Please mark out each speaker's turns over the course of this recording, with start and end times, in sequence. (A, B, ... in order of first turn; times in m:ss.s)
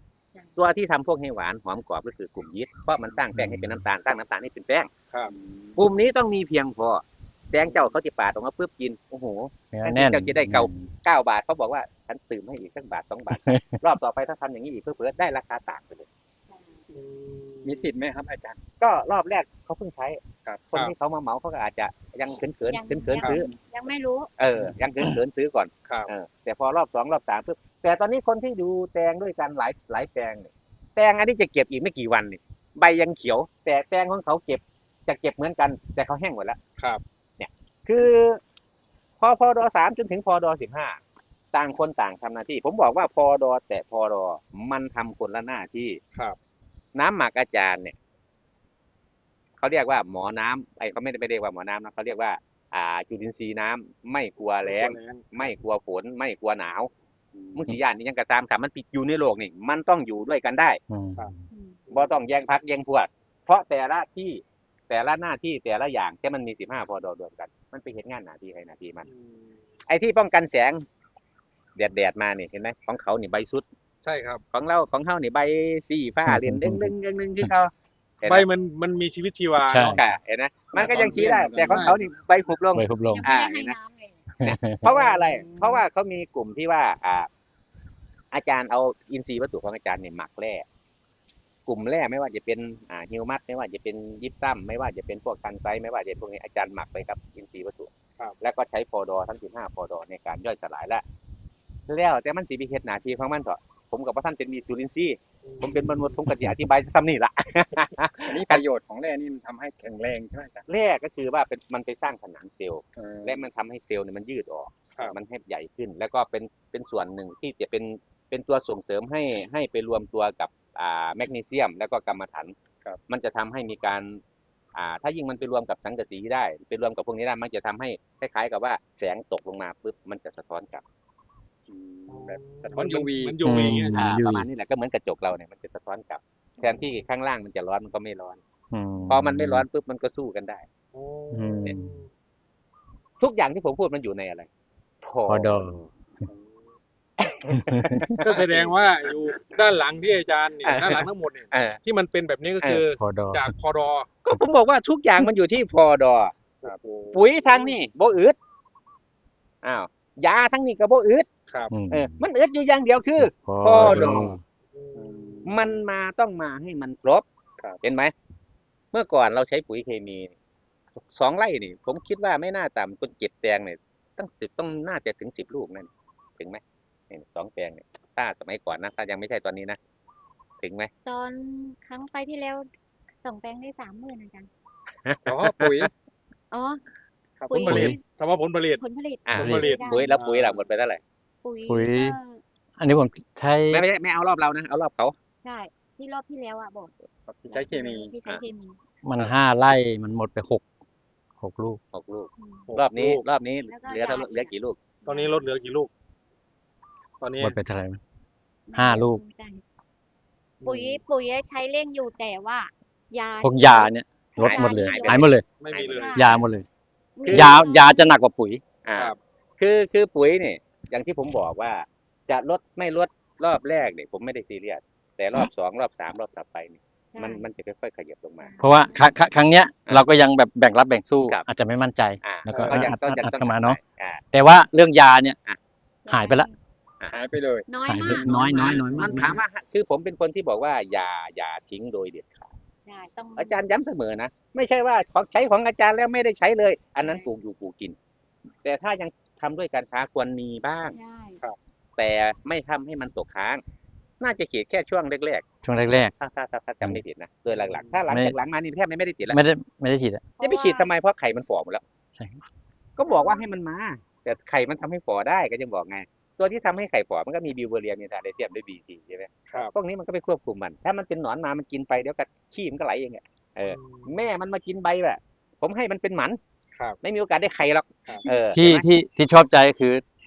0:00.3-0:00.6 A
0:00.6-0:04.9 B
0:03.3-0:03.8 C
0:05.3-0:05.7 D
0:05.8-0:16.1 B
0:09.7-0:10.9 C
0:13.3-0:13.8 C
0:16.4-0:16.9 A
0:16.9-0:17.8 E
0:17.6-0:18.6 D
0:18.8-0:23.5 B
0:22.7-0:24.3 A
0:23.2-0:23.4 D
0:24.4-0:36.6 B
0:37.4-0:38.4 B
0:39.2-0:41.0 B
0:41.5-0:46.0 B
0:46.9-0:48.0 B
0:49.6-0:56.9 B
0:54.6-0:55.5 E
0:57.5-1:00.8 B
1:00.9-1:01.4 C
1:01.5-1:01.8 A
1:01.9-1:09.1 B
1:09.1-1:09.5 E
1:09.9-1:10.8 B
1:11.8-1:13.6 B
1:14.0-1:14.4 E
1:14.5-1:18.5 B
1:16.3-1:17.5 C
1:18.3-1:20.0 E
1:19.6-1:20.0 C
1:19.9-1:23.8 B
1:20.8-1:22.0 E
1:20.8-1:22.0 D
1:22.7-1:23.3 C
1:23.1-1:24.2 A
1:24.4-1:24.8 C
1:24.4-1:27.3 B
1:24.9-1:25.2 D
1:28.3-1:30.6 B
1:31.6-1:41.0 B
1:41.9-1:48.6 B
1:45.4-1:46.1 E
1:48.2-1:50.7 D
1:50.7-2:02.5 B
1:53.0-1:53.4 D
2:03.1-2:04.2 B
2:04.7-2:10.8 B
2:11.7-2:13.8 D
2:12.1-2:14.0 E
2:13.4-2:14.5 C
2:13.9-2:18.4 B
2:18.7-2:19.6 C
2:19.1-2:20.6 B
2:20.9-2:22.1 E
2:21.3-2:22.0 C
2:23.2-2:24.5 B
2:25.0-2:25.9 B
2:25.3-2:25.8 C
2:27.2-2:28.5 B
2:27.5-2:28.2 C
2:28.2-2:34.1 E
2:30.6-2:31.8 B
2:33.0-2:33.5 C
2:34.2-2:36.3 B
2:36.6-2:37.4 D
2:37.1-2:38.4 B
2:39.6-2:41.3 B
2:41.7-2:42.2 C
2:41.9-2:44.3 B
2:43.2-2:44.4 C
2:43.8-2:44.2 D
2:44.7-2:45.4 E
2:44.9-2:45.7 D
2:45.4-2:47.2 B
2:47.8-2:48.1 B
2:48.9-2:50.3 B
2:51.0-2:59.8 B
3:00.6-3:00.9 B
3:01.0-3:02.7 A
3:03.2-3:04.5 A
3:05.0-3:05.9 B
3:05.2-3:05.9 D
3:06.5-3:06.8 A
3:07.5-3:08.0 A
3:07.6-3:08.0 C
3:07.6-3:08.8 E
3:08.8-3:10.1 A
3:09.2-3:11.0 B
3:09.4-3:10.6 E
3:09.4-3:09.7 C
3:11.4-3:12.4 A
3:11.7-3:12.2 C
3:12.8-3:13.8 C
3:13.7-3:15.1 B
3:15.4-3:16.9 A
3:17.3-3:18.1 D
3:17.5-3:18.8 A
3:19.0-3:20.6 C
3:21.4-3:21.8 C
3:21.9-3:24.8 B
3:22.4-3:22.7 A
3:22.7-3:23.2 E
3:23.7-3:24.5 A
3:25.0-3:25.5 A
3:25.0-3:25.9 E
3:27.2-3:27.6 E
3:27.4-3:28.0 C
3:28.7-3:29.6 A
3:28.7-3:29.2 C
3:30.6-3:31.0 E
3:30.6-3:36.4 A
3:33.4-3:35.4 C
3:34.4-3:36.3 B
3:35.6-3:36.4 E
3:36.1-3:36.6 C
3:37.2-3:38.0 A
3:37.2-3:37.6 B
3:37.3-3:38.6 C
3:38.8-3:48.5 B
3:47.1-3:47.4 A
3:48.4-3:49.1 A
3:48.6-3:53.8 C
3:52.2-3:54.2 B
3:52.5-3:52.9 D
3:54.3-3:55.4 C
3:56.0-3:56.5 A
3:56.1-3:56.5 C
3:57.1-3:57.7 D
3:57.7-3:59.4 A
3:57.8-3:59.4 C
3:58.0-4:02.5 B
4:02.8-4:03.6 A
4:03.4-4:08.0 B
4:07.0-4:07.3 A
4:08.6-4:10.9 B
4:10.8-4:11.4 A
4:12.0-4:13.6 B
4:14.2-4:15.4 B
4:15.6-4:16.1 C
4:16.2-4:19.4 B
4:17.6-4:18.0 E
4:18.1-4:18.3 C
4:19.3-4:20.2 C
4:20.4-4:20.9 A
4:20.4-4:21.8 B
4:22.1-4:22.4 C
4:23.0-4:36.4 B
4:23.0-4:23.4 A
4:33.7-4:34.1 E
4:37.0-4:38.9 B
4:38.5-4:40.0 C